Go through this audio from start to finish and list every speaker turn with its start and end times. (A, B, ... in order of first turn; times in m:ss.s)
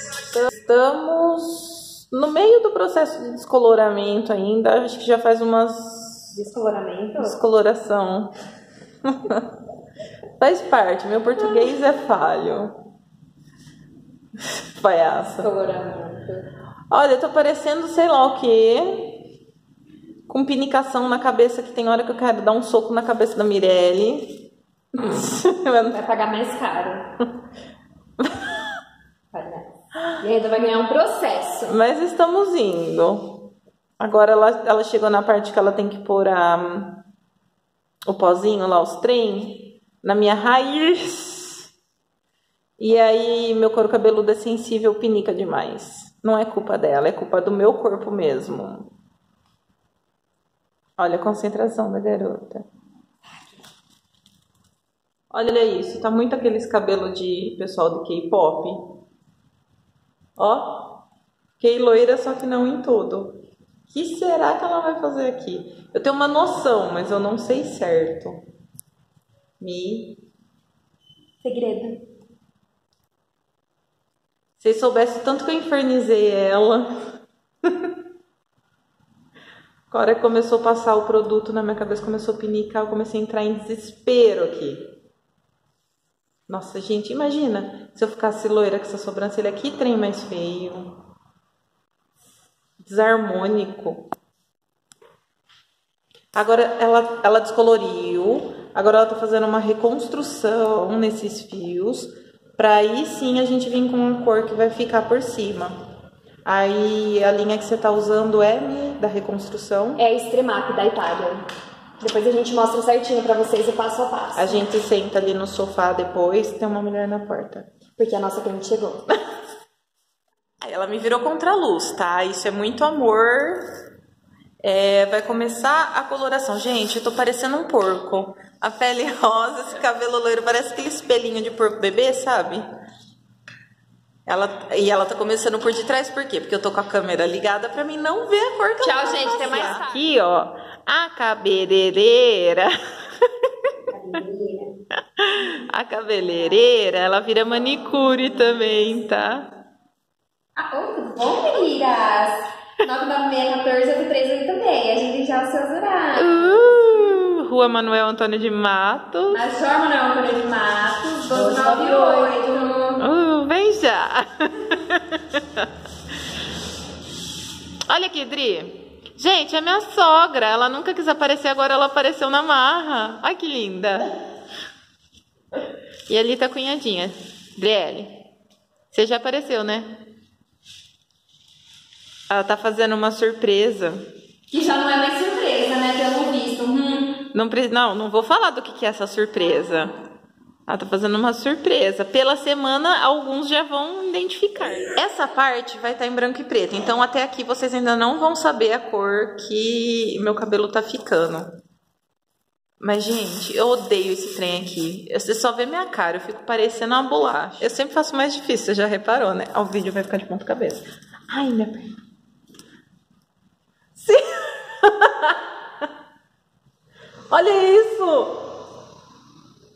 0:00.3-0:06.3 A
0:06.3-0:07.4 B
0:07.2-0:08.3 A
0:09.1-0:09.5 A
0:10.4-0:12.7 A
0:14.8-0:15.5 A
0:15.4-0:16.5 B
0:16.9-0:19.2 A
0:20.3-0:26.0 A
0:25.9-0:27.1 B
0:28.2-0:28.5 A
0:29.3-0:31.7 B
0:31.7-0:33.5 A
0:34.0-0:37.0 A
0:38.1-0:41.7 A
0:42.8-0:48.9 A
0:51.0-0:52.6 A
0:55.3-0:59.0 A
1:00.4-1:01.0 A
1:01.6-1:08.4 A
1:09.6-1:10.2 A
1:11.4-1:12.0 B
1:14.6-1:16.9 A
1:19.9-1:24.8 A
1:26.5-1:31.0 A
1:32.8-1:34.1 A
1:36.3-1:45.7 A
1:46.4-1:50.0 A
1:50.0-1:51.4 B
1:52.0-1:54.6 B
1:54.4-1:57.7 A
1:58.0-1:59.1 B
2:00.6-2:03.6 A
2:04.6-2:12.6 A
2:14.2-2:22.7 A
2:18.8-2:20.0 B
2:23.9-2:24.8 B
2:25.2-2:29.5 A
2:30.6-2:36.9 B
2:36.2-2:39.4 A
2:39.3-2:43.0 B
2:41.3-2:42.4 A
2:43.0-2:45.7 A
2:47.9-2:54.1 A
2:56.1-2:58.2 A
2:58.9-3:00.0 A
3:02.3-3:04.0 A
3:04.5-3:07.2 B
3:07.3-3:09.9 A
3:10.7-3:21.5 A
3:22.8-3:31.9 A
3:34.0-3:35.4 A
3:37.3-3:38.4 A